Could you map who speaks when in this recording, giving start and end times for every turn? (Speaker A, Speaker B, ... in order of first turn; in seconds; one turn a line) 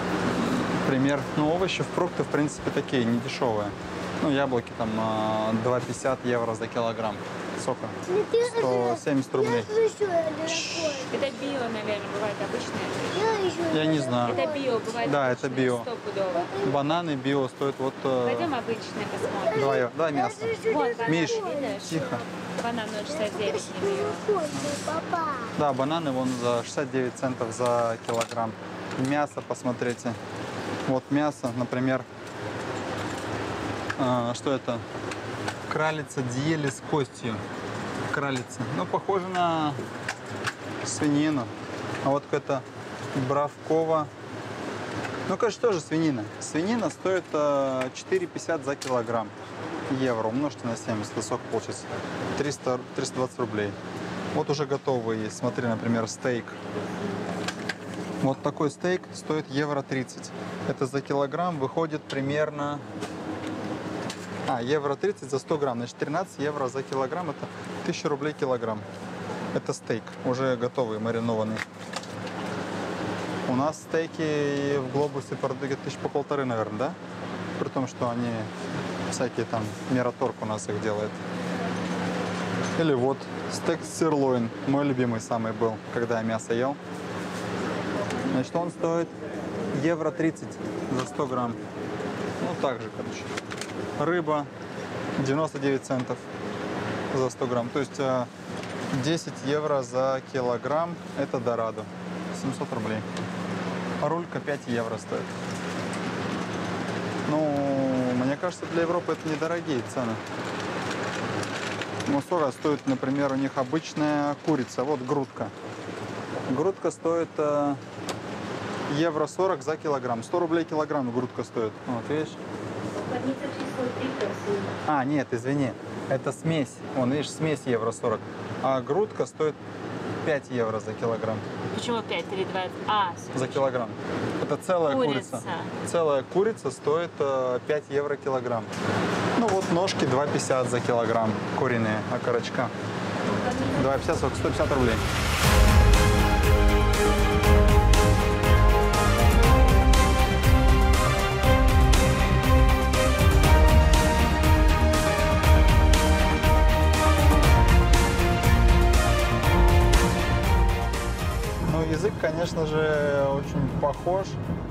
Speaker A: 0.2-9.7
Speaker B: 8.1-11.2
Speaker A: 10.5-11.1
Speaker C: 11.1-13.1
Speaker B: 13.1-14.9
Speaker A: 13.7-14.4
Speaker C: 14.2-16.5
Speaker A: 15.0-15.9
Speaker B: 16.3-16.8
Speaker A: 16.6-18.5
Speaker C: 18.2-19.8
Speaker B: 19.4-22.2
Speaker A: 19.5-22.2
Speaker C: 20.6-24.3
Speaker B: 23.1-25.5
Speaker A: 25.6-30.2
Speaker A: 30.9-32.1
Speaker A: 34.0-34.8
Speaker A: 35.7-37.4
Speaker A: 38.1-39.8
Speaker A: 40.8-41.5
Speaker A: 42.0-44.1
Speaker A: 45.3-49.3
Speaker A: 49.9-53.8
Speaker A: 54.3-56.6
Speaker A: 58.2-62.8
Speaker A: 64.5-68.8
Speaker A: 69.5-71.6
Speaker A: 73.5-77.0
Speaker A: 77.6-78.5
Speaker A: 79.1-81.2
Speaker A: 82.8-86.8
Speaker A: 88.3-89.1
Speaker A: 89.7-91.6
Speaker A: 92.4-93.3
Speaker A: 94.0-94.5
Speaker A: 95.2-96.2
Speaker A: 97.1-98.3
Speaker A: 98.9-103.0
Speaker A: 104.0-105.3
Speaker A: 107.2-110.2
Speaker A: 112.0-115.5
Speaker A: 116.5-117.8
Speaker A: 118.9-122.4
Speaker C: 123.0-124.7
Speaker A: 124.8-129.6
Speaker A: 130.2-131.5
Speaker C: 131.7-133.7
Speaker A: 133.3-138.7
Speaker C: 134.9-135.7
Speaker A: 139.4-142.7
Speaker C: 143.4-143.8
Speaker A: 143.7-145.0
Speaker A: 161.6-164.4